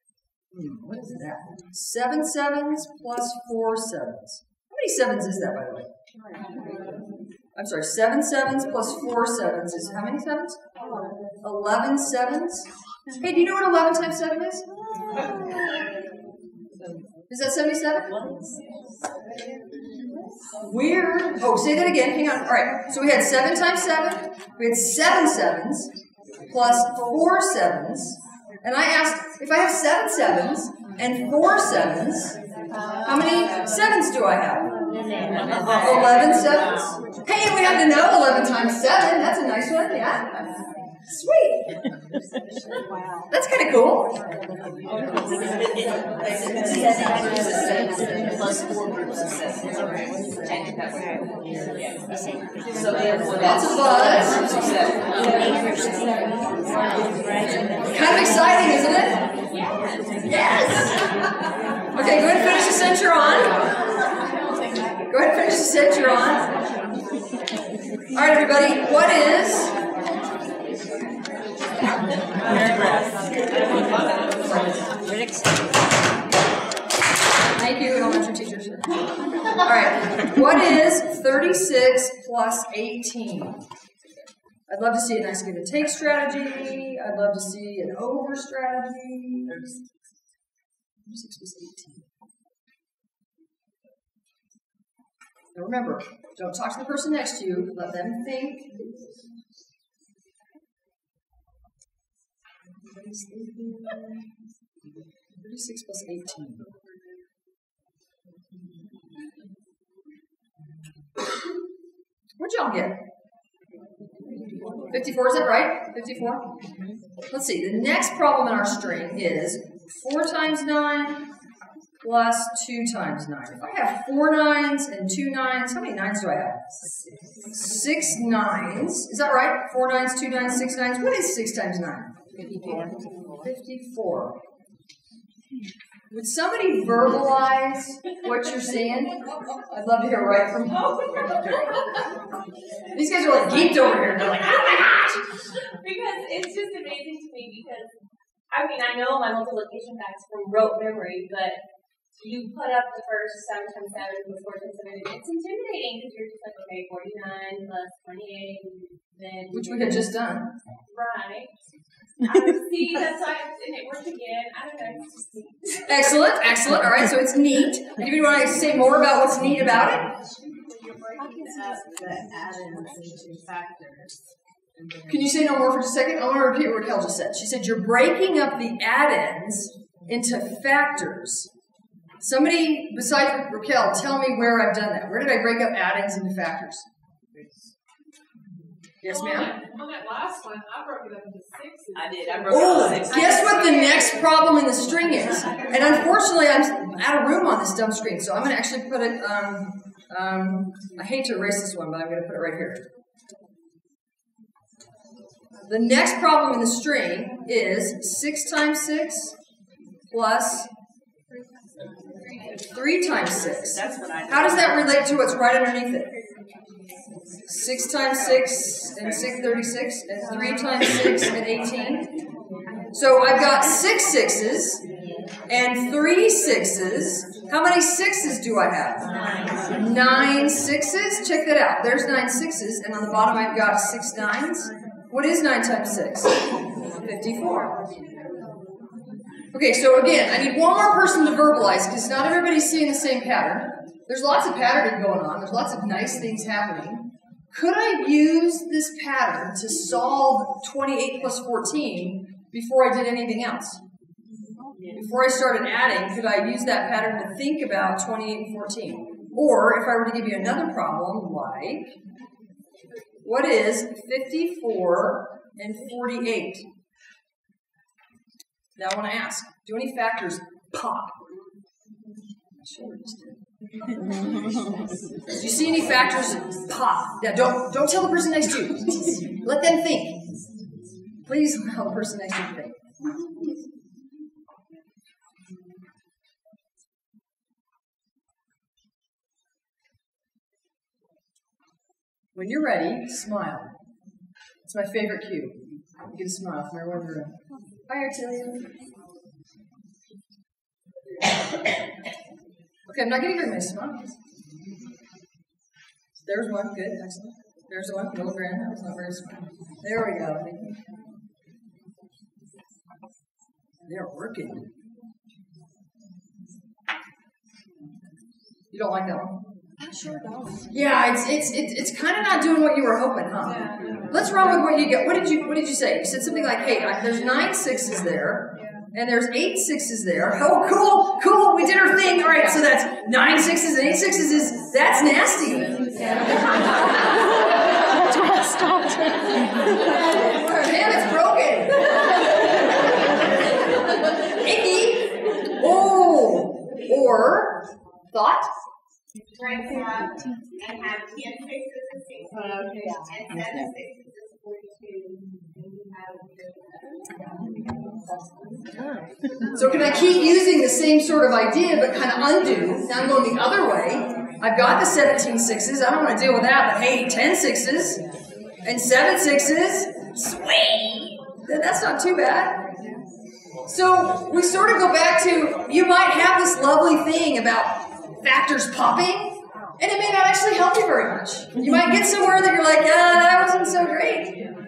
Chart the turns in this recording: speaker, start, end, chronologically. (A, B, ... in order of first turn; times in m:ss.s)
0:00.5-0:05.9 A
0:07.5-0:10.6 A
0:11.4-0:15.2 A
0:16.8-0:18.1 A
0:20.6-0:25.9 A
0:26.5-0:32.4 A
0:33.0-0:34.7 A
0:35.6-0:40.3 A
0:41.1-0:41.7 A
0:43.3-0:44.1 A
0:45.4-0:52.0 B
0:52.7-0:53.8 B
0:53.4-0:54.6 A
0:54.4-0:56.1 B
0:57.9-0:59.2 A
1:00.3-1:01.0 A
1:01.9-1:03.6 A
1:05.1-1:06.4 A
1:08.1-1:09.7 A
1:14.4-1:14.9 A
1:17.6-1:18.9 A
1:19.5-1:23.6 A
1:24.7-1:29.6 A
1:31.0-1:32.1 A
1:35.5-1:38.8 A
1:42.8-1:44.2 A
1:45.4-1:46.7 A
1:52.4-1:53.0 A
1:54.9-1:56.4 A
1:57.3-2:01.2 A
2:02.0-2:06.8 A
2:07.5-2:12.7 A
2:13.4-2:14.4 A
2:16.1-2:20.8 A
2:20.7-2:22.1 C
2:22.9-2:25.2 A
2:23.3-2:25.2 C
2:25.8-2:27.9 C
2:28.5-2:31.6 C
2:32.2-2:40.0 C
2:39.5-2:40.5 A
2:40.9-2:41.5 C
2:42.2-2:46.1 C
2:45.9-2:50.1 A
2:51.7-2:54.1 B
2:54.8-2:55.1 B
2:55.1-3:01.5 A
3:02.2-3:06.8 A
3:09.0-3:09.5 A
3:09.1-3:12.6 D
3:12.0-3:13.7 B
3:12.5-3:22.8 A
3:13.1-3:13.7 D
3:25.7-3:29.4 A
3:30.1-3:30.7 A
3:32.7-3:36.1 A
3:37.5-3:42.1 A
3:42.9-3:44.8 A
3:45.5-3:49.0 A
3:49.7-3:56.4 A
3:57.0-3:57.8 A
3:59.5-4:13.8 A
4:14.9-4:21.9 A
4:23.2-4:26.6 A
4:28.8-4:31.2 A
4:32.6-4:33.4 A
4:35.3-4:40.2 A
4:41.2-4:42.8 A
4:52.3-4:53.7 A
4:54.6-4:57.3 A
4:57.9-4:58.7 A
5:02.9-5:04.0 A
5:06.2-5:10.8 A
5:13.8-5:14.7 A
5:18.7-5:19.4 A
5:20.7-5:37.4 A
5:23.7-5:24.0 D
5:37.9-5:39.0 A
5:39.7-5:42.8 A
5:44.0-5:48.5 A
5:49.3-5:57.2 C
5:58.1-5:58.6 C
5:59.5-6:08.0 A
6:08.6-6:12.6 A
6:13.7-6:24.3 A